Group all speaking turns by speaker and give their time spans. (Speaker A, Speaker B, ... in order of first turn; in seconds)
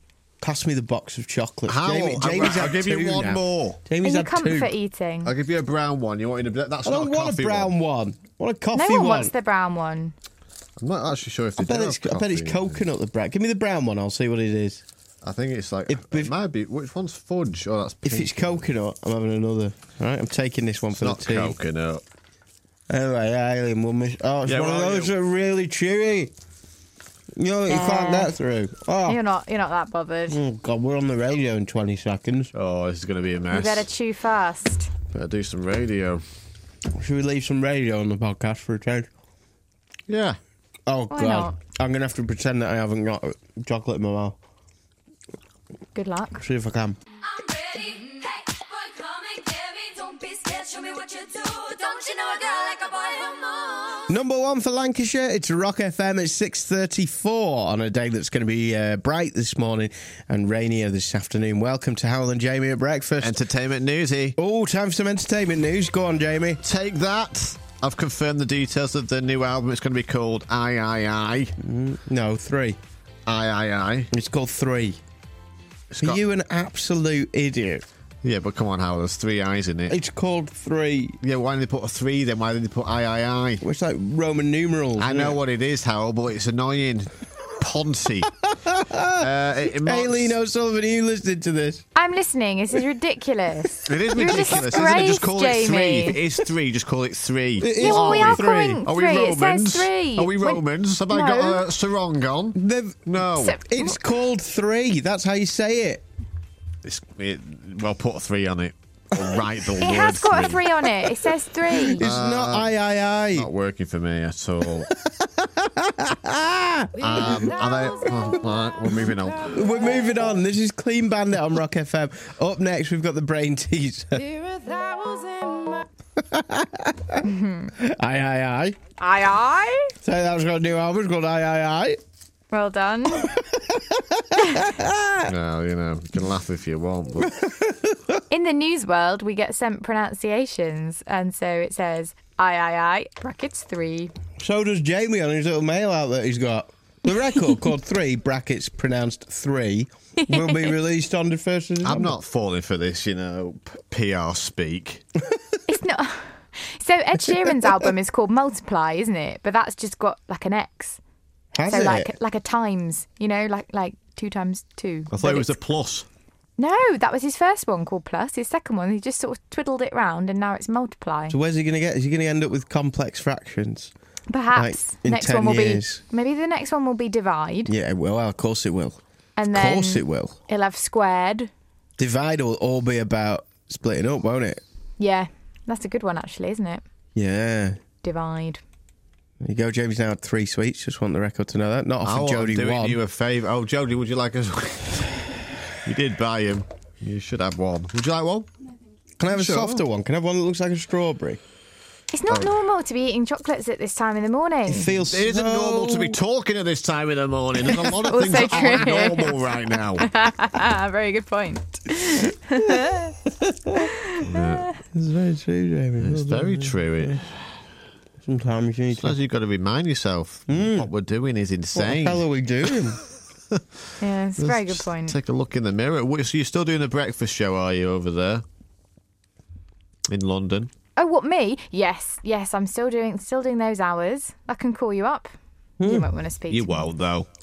Speaker A: 0.4-4.7, 6.8-9.3, 11.6-14.8, 15.9-16.3, 18.0-21.5, 22.9-26.3, 27.4-29.2, 30.3-32.5, 37.0-39.1, 40.9-44.4, 46.4-47.0, 54.1-63.4, 64.4-66.6, 71.6-72.8, 74.1-75.0, 76.0-77.8, 79.9-81.2, 83.6-85.4, 88.5-91.8, 94.2-95.0, 97.6-98.8, 102.5-106.0, 111.9-113.5, 115.4-117.5, 119.5-124.4, 125.5-127.2, 127.8-128.8, 130.0-132.0, 133.2-135.3, 137.2-138.2, 144.4-152.1, 161.5-162.1, 171.3-173.9, 174.5-176.0, 177.7-179.0, 179.5-180.4, 182.0-184.6, 187.2-187.8, 189.4-193.0, 199.2-201.4, 204.7-206.2, 208.4-208.9, 212.7-213.9, 214.9-217.2, 218.2-219.2, 220.5-220.9, 221.7-223.0, 235.8-236.1
Speaker B: 1.7-3.8, 5.2-7.8, 10.8-12.8, 15.2-18.7, 21.0-22.0, 24.5-25.1, 32.5-33.9, 35.1-36.2, 40.1-40.4, 63.2-64.4, 66.6-71.5, 73.3-74.1, 75.9-76.2, 78.2-80.0, 81.2-83.6, 85.0-88.3, 89.2-90.4, 93.9-103.6, 106.8-111.1, 111.9-112.7, 113.3-114.9, 117.0-119.7, 135.3-137.3, 151.8-155.1, 165.1-166.1, 192.0-198.5, 199.3-199.8, 202.3-202.6, 205.1-210.1, 214.2-214.7, 216.0-217.6, 219.0-222.8, 223.5-223.8, 224.4-228.4, 230.1-230.7, 236.5-237.3
Speaker C: 4.0-5.3, 8.7-10.1, 27.7-28.3, 29.1-30.4, 33.5-34.9, 41.1-41.6, 46.0-46.4, 92.0-96.2, 97.8-101.6, 103.4-104.0, 109.8-112.0, 127.2-127.7, 129.0-129.9, 132.5-133.3, 138.3-144.1, 150.3-150.7, 155.7-161.0, 161.7-165.6, 166.6-171.4, 174.3-177.7, 179.4-181.5, 185.0-186.8, 188.0-188.6, 202.1-204.9, 208.0-209.4, 210.0-213.1, 213.8-214.6, 224.0-225.2, 231.0-236.9
Speaker D: 47.2-54.1